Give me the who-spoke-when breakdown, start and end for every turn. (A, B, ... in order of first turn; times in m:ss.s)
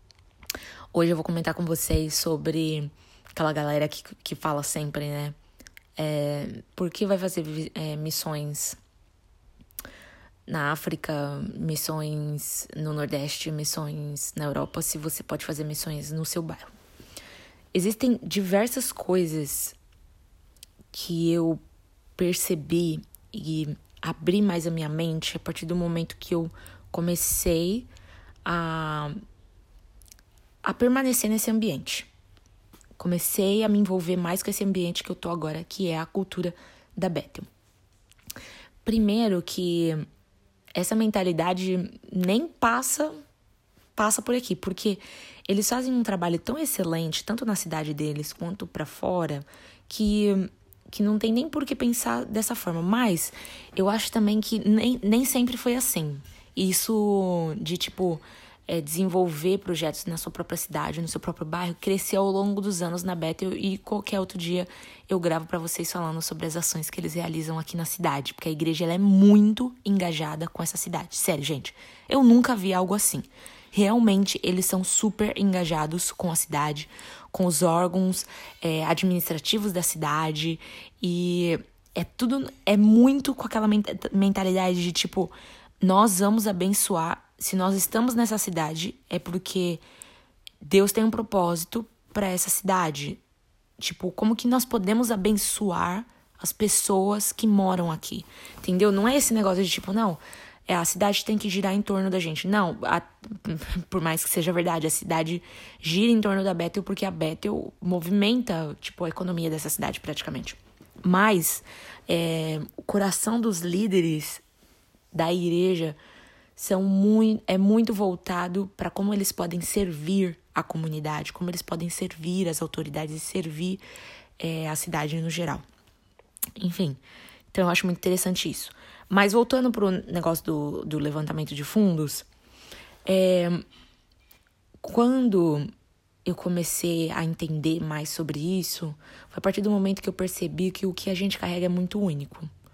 0:00.9-0:05.4 A
0:06.0-0:08.8 A
0:10.5-0:16.7 A
0:17.7-0:19.8 A
0:20.9-0:21.6 A
0:22.2-0:27.9 A
0:28.4-0:29.2 A
0:30.6-0:32.1 A
0:33.0-0:37.5 A
0:38.8-0:40.0 A
0:40.8-0:43.1 A
0:44.0-1:29.8 A
1:30.6-1:33.2 A
1:33.8-1:54.4 A
1:55.1-1:56.0 A
1:56.6-2:03.8 A
2:04.4-2:05.6 A
2:06.6-2:07.0 A
2:07.5-2:12.3 A
2:13.0-2:13.6 A
2:14.8-2:15.7 A
2:16.2-2:22.5 A